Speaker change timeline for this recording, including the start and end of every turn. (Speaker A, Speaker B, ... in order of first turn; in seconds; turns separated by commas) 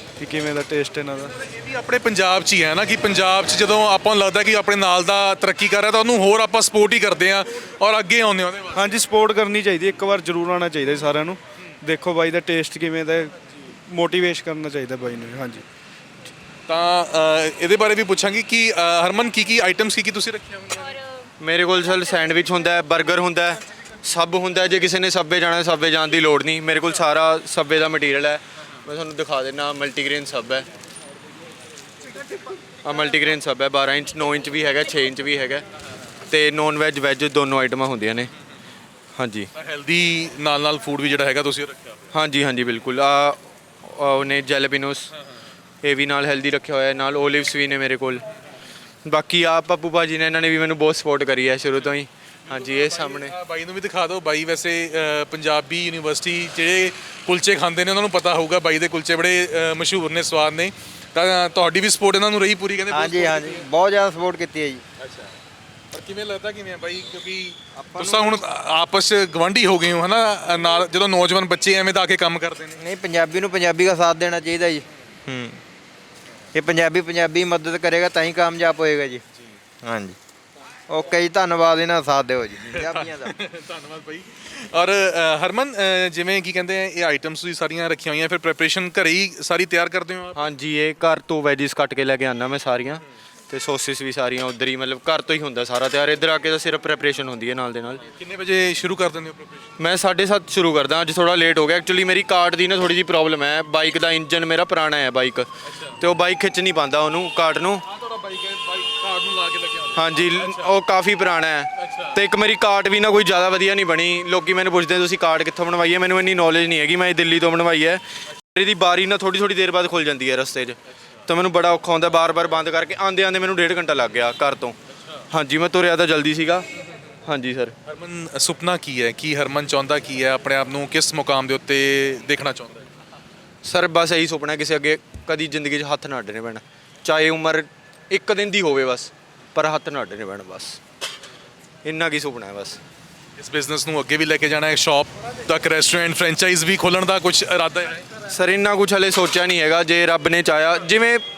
Speaker A: 0.2-1.3, Speaker B: 1.4-8.9, Speaker A: 8.7-13.3, Speaker A: 13.9-15.6, Speaker B: 16.7-21.0, Speaker C: 21.4-30.7, Speaker C: 32.8-35.6, Speaker C: 36.3-38.3, Speaker C: 39.1-39.5, Speaker B: 39.5-41.9, Speaker C: 42.1-45.1, Speaker C: 45.8-48.2, Speaker C: 49.0-53.3, Speaker B: 52.5-63.7, Speaker D: 62.9-64.8, Speaker B: 65.0-65.3, Speaker B: 65.9-72.8, Speaker D: 67.9-68.3, Speaker D: 72.8-75.6, Speaker D: 76.5-79.2, Speaker D: 79.8-80.2, Speaker D: 80.9-83.3, Speaker B: 82.6-90.4, Speaker C: 90.3-98.0, Speaker B: 98.2-99.6, Speaker C: 99.8-107.8, Speaker B: 105.7-105.9, Speaker B: 107.9-110.7, Speaker C: 109.9-124.8, Speaker B: 111.8-112.1, Speaker C: 125.3-126.7, Speaker C: 127.2-127.7, Speaker B: 127.9-132.8, Speaker C: 133.6-140.8, Speaker C: 141.8-142.8, Speaker B: 143.4-148.1, Speaker C: 148.3-151.2